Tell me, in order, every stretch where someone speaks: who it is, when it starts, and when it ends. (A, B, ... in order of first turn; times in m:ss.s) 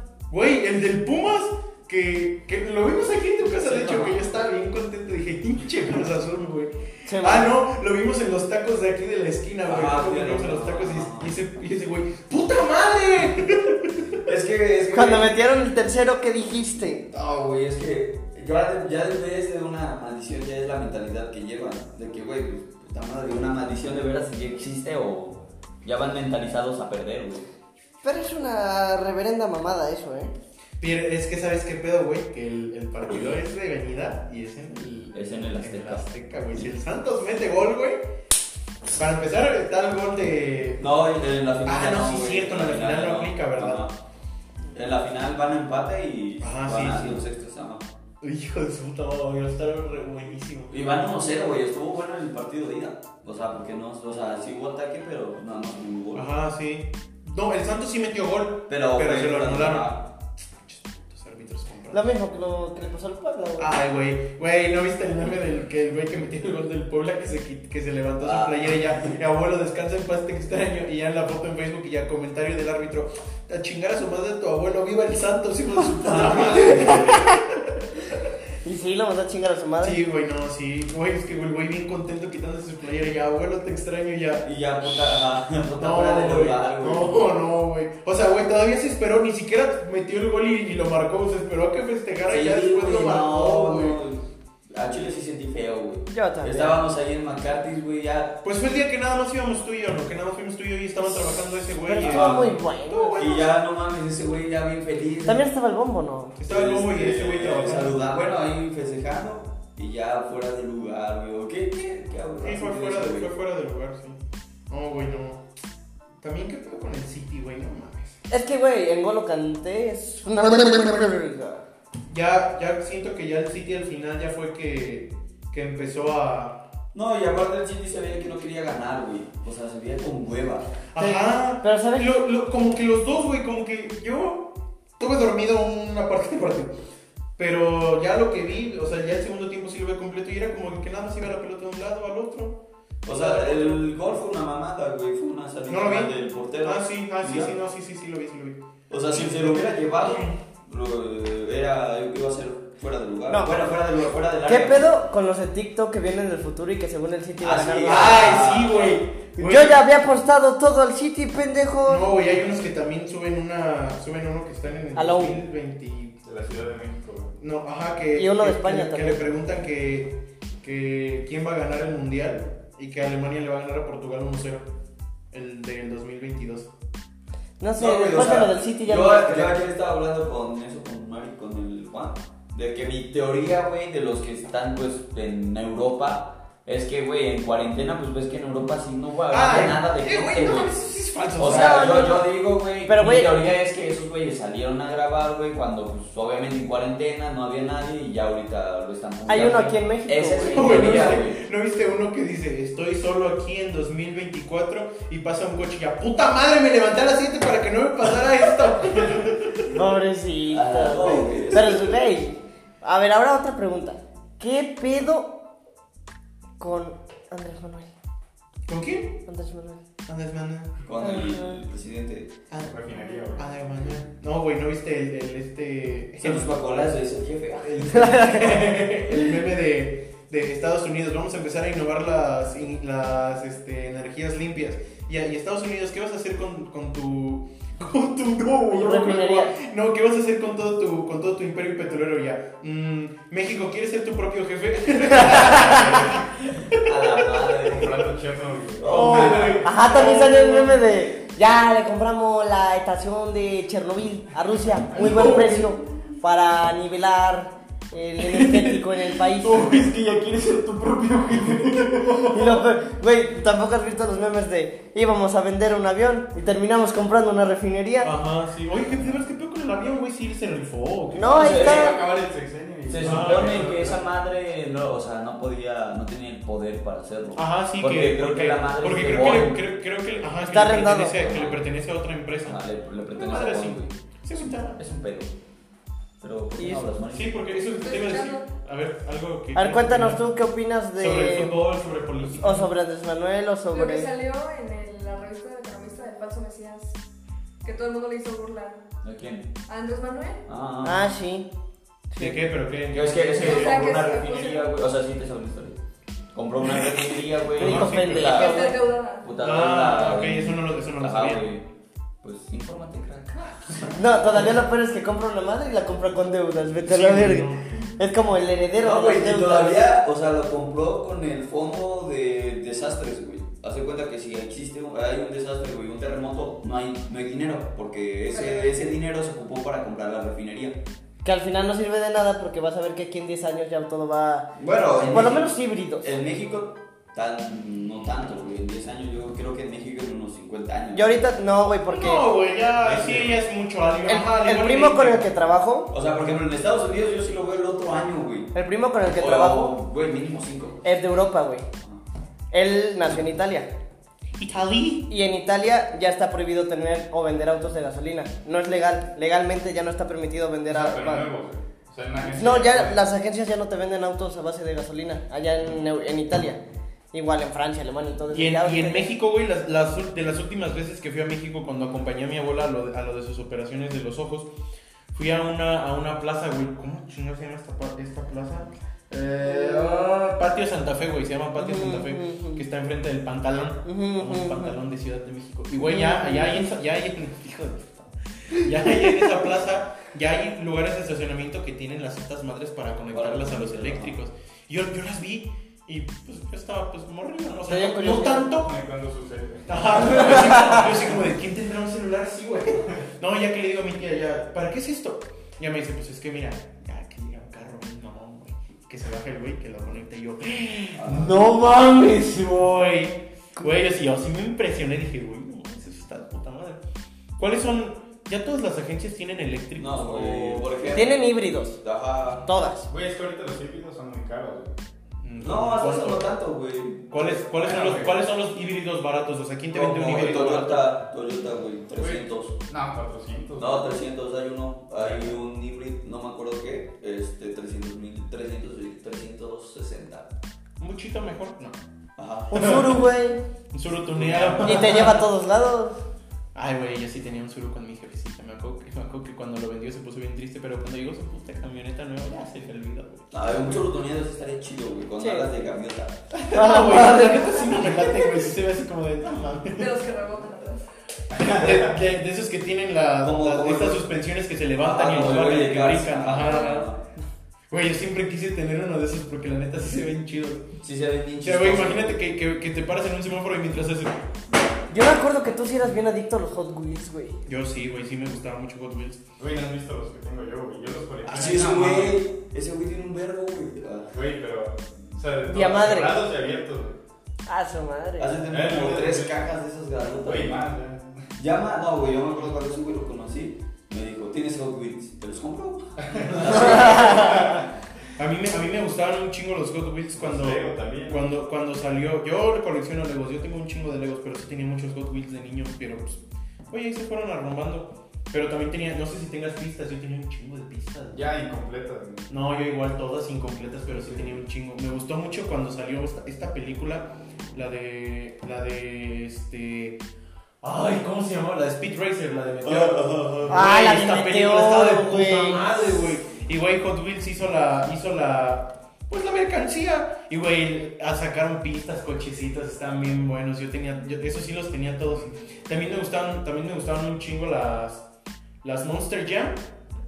0:00.3-0:14.2 A
0:03.6-0:04.3 B
0:07.1-0:07.5 C
0:09.6-0:11.3 B
0:14.2-0:15.4 B
0:14.9-0:17.0 C
0:17.1-0:27.5 B
0:28.0-0:30.3 C
0:30.8-0:38.0 A
0:35.1-0:36.0 B
0:39.0-0:40.9 A
0:40.8-0:44.0 B
0:41.6-0:43.8 A
0:44.7-0:47.9 B
0:46.4-0:47.2 A
0:48.2-0:51.1 A
0:50.7-0:56.3 B
0:56.2-1:00.1 A
0:58.7-1:00.0 B
1:00.6-1:02.1 A
1:01.9-1:03.7 C
1:03.6-1:18.1 A
1:08.2-1:09.1 B
1:16.0-1:17.0 B
1:16.6-1:17.4 C
1:18.6-1:20.0 C
1:19.8-1:25.2 A
1:24.4-1:27.2 B
1:25.8-1:34.0 A
1:32.3-1:34.2 B
1:34.7-1:38.4 B
1:36.1-1:36.8 C
1:38.4-1:43.5 A
1:41.8-1:43.3 C
1:42.0-1:42.5 B
1:43.2-1:45.5 B
1:45.3-1:46.4 C
1:46.4-1:48.1 A
1:46.5-1:53.3 B
1:52.4-1:54.2 A
1:54.7-1:55.4 A
1:56.2-1:58.2 A
1:58.3-2:01.6 C
2:02.1-2:06.6 A
2:06.9-2:10.7 B
2:10.9-2:16.8 A
2:11.0-2:12.1 C
2:17.4-2:23.9 A
2:23.0-2:27.5 B
2:25.7-2:30.3 A
2:28.9-2:35.0 B
2:33.3-2:33.6 C
2:34.5-2:38.4 C
2:37.4-2:39.0 B
2:37.9-2:39.8 A
2:39.4-2:42.1 C
2:41.9-2:46.2 A
2:45.0-2:45.4 C
2:46.2-2:47.4 D
2:47.4-2:54.7 A
2:48.1-2:49.3 C
2:55.3-2:56.7 A
2:57.6-2:59.6 C
2:57.8-3:10.8 B
3:09.3-3:12.2 A
3:11.4-3:21.4 B
3:11.4-3:12.3 C
3:12.9-3:13.5 C
3:19.3-3:21.2 C
3:20.5-3:29.8 A
3:29.7-3:35.4 C
3:30.5-3:32.0 B
3:36.6-3:37.9 C
3:38.7-3:39.2 A
3:39.3-3:39.8 C
3:40.1-3:40.8 A
3:40.8-3:42.3 B
3:41.0-3:41.6 C
3:42.5-3:46.9 A
3:42.6-3:43.5 D
3:46.2-3:48.1 B
3:47.6-4:07.7 A
3:47.9-3:48.7 C
3:58.7-3:59.6 C
4:05.1-4:05.9 C
4:06.7-4:08.1 B
4:07.7-4:09.6 D
4:08.8-4:09.6 B
4:08.9-4:10.9 A
4:08.9-4:19.9 C
4:14.9-4:15.8 A
4:18.2-4:22.7 A
4:22.3-4:28.1 C
4:28.0-4:31.6 A
4:31.1-4:32.0 C
4:31.4-4:32.0 B
4:31.4-4:34.0 D
4:32.9-4:39.6 B
4:33.0-4:33.6 A
4:37.4-4:44.8 A
4:40.5-4:41.2 C
4:41.1-4:41.7 B
4:42.4-4:45.3 B
4:46.2-4:47.4 B
4:46.6-4:46.9 C
4:47.1-4:50.3 A
4:47.8-4:48.5 E
4:49.6-4:51.6 C
4:51.0-4:52.7 A
4:52.3-4:54.1 C
4:53.7-4:57.0 E
4:57.6-4:58.8 E
4:59.0-4:59.5 B
4:59.7-5:00.4 E
5:00.5-5:01.1 B
5:00.8-5:01.5 C
5:02.1-5:02.4 C
5:02.2-5:04.0 A
5:02.9-5:05.8 B
5:03.4-5:04.7 E
5:06.4-5:11.7 B
5:07.6-5:08.5 A
5:07.6-5:08.8 C
5:08.3-5:09.4 E
5:09.4-5:11.5 A
5:12.2-5:14.0 B
5:14.0-5:19.8 C
5:16.8-5:17.8 A
5:18.8-5:30.8 B
5:28.3-5:28.8 E
5:31.2-5:36.0 C
5:34.6-5:41.2 B
5:40.9-5:42.3 C
5:41.9-5:45.3 A
5:42.8-5:43.3 D
5:44.1-5:45.9 C
5:45.9-5:48.5 B
5:48.5-5:49.7 C
5:49.1-5:50.9 B
5:50.8-5:51.6 C
5:52.5-5:53.7 C
5:54.4-5:55.1 A
5:55.1-6:01.3 C
6:00.7-6:03.0 D
6:02.3-6:06.6 C
6:07.1-6:09.1 C
6:08.3-6:14.5 A
6:15.1-6:38.7 A
6:19.4-6:20.2 C
6:21.6-6:22.6 C
6:23.8-6:24.8 C
6:25.8-6:26.7 C
6:33.1-6:34.1 B
6:37.7-6:38.6 C
6:38.6-6:40.4 D
6:39.7-6:56.8 A
6:40.0-6:40.8 C
6:51.0-6:51.4 B
6:57.4-7:00.7 A
6:59.8-7:02.5 B
7:00.9-7:01.8 C
7:02.4-7:02.9 C
7:02.9-7:04.8 D
7:05.2-7:06.4 A
7:05.4-7:07.4 B
7:07.1-7:10.9 A
7:07.6-7:08.2 D
7:09.7-7:12.6 B
7:12.0-7:14.0 D
7:13.6-7:20.3 B
7:15.0-7:15.4 D
7:20.8-7:21.8 A
7:22.2-7:23.0 B
7:22.5-7:23.4 C
7:22.5-7:23.0 A
7:23.7-7:25.3 A
7:24.2-7:24.7 D
7:24.6-7:26.0 C
7:26.6-7:33.8 A
7:33.3-7:36.2 B
7:35.2-7:35.5 C
7:36.3-7:39.9 A
7:36.5-7:38.4 C
7:39.7-7:40.8 E
7:41.3-7:41.9 D
7:41.4-7:46.9 A
7:43.2-7:44.1 B
7:44.8-7:47.0 B
7:46.4-7:46.8 E
7:47.7-7:50.7 A
7:50.8-7:52.2 B
7:51.4-7:54.2 A
7:54.9-7:57.4 C
7:57.5-7:59.2 A
7:59.4-8:02.2 D
8:01.2-8:04.1 B
8:04.1-8:07.0 D
8:05.5-8:06.2 C
8:07.5-8:08.3 C
8:08.2-8:10.6 B
8:08.5-8:09.4 D
8:10.0-8:11.2 D
8:11.4-8:17.6 B
8:16.0-8:17.6 D
8:16.4-8:31.2 A
8:16.6-8:17.3 C
8:20.2-8:21.3 D
8:31.1-8:32.3 D
8:32.3-8:40.0 A
8:34.0-8:34.3 D
8:40.6-8:58.0 A
8:42.6-8:43.5 B
8:43.5-8:45.7 C
8:58.6-8:59.6 A